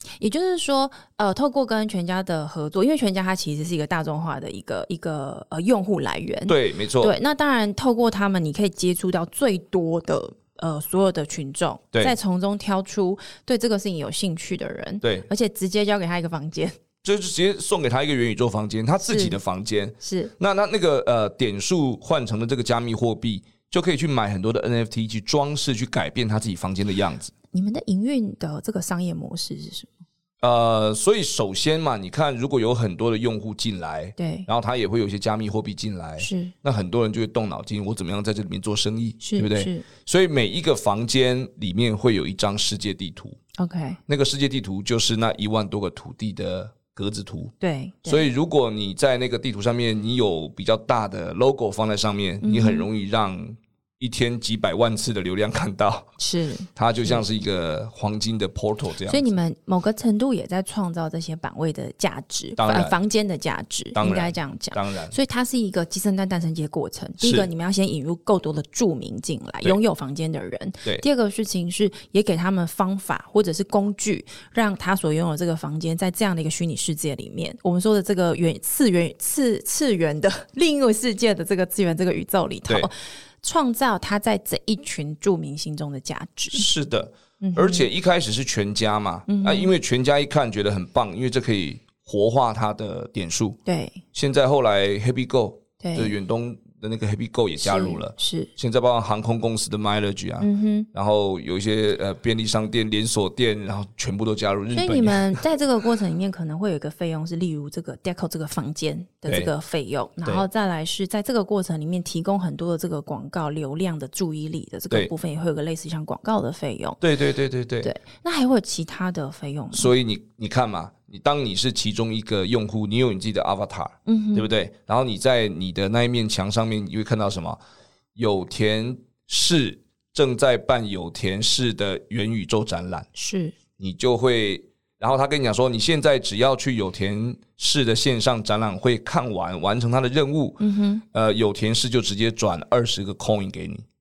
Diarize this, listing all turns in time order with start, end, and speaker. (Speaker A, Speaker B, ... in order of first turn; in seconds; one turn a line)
Speaker A: 0.2-16.8
Speaker B: 6.5-7.1
Speaker B: 15.0-15.3
Speaker B: 17.0-27.3
Speaker A: 19.1-19.4
Speaker A: 20.0-20.3
Speaker A: 27.5-29.9
Speaker B: 30.4-43.4
Speaker A: 34.2-34.5
Speaker A: 36.2-36.5
Speaker A: 39.2-39.9
Speaker A: 43.6-44.0
Speaker B: 44.1-47.5
Speaker A: 47.6-48.3
Speaker B: 48.0-56.1
Speaker A: 52.4-52.9
Speaker A: 56.2-57.2
Speaker B: 56.8-59.4
Speaker A: 59.1-86.7
Speaker B: 62.6-63.0
Speaker B: 64.0-65.1
Speaker B: 67.2-67.5
Speaker B: 86.5-93.6
Speaker A: 87.4-87.9
Speaker A: 89.3-89.7
Speaker A: 93.7-94.0
Speaker B: 94.1-105.4
Speaker A: 95.8-96.1
Speaker A: 97.6-98.5
Speaker A: 100.4-100.9
Speaker A: 104.7-117.0
Speaker B: 117.0-117.9
Speaker A: 117.8-119.9
Speaker B: 119.7-127.6
Speaker A: 124.0-124.5
Speaker B: 128.2-133.1
Speaker A: 133.2-133.5
Speaker B: 133.8-140.6
Speaker A: 140.6-141.0
Speaker B: 141.1-143.8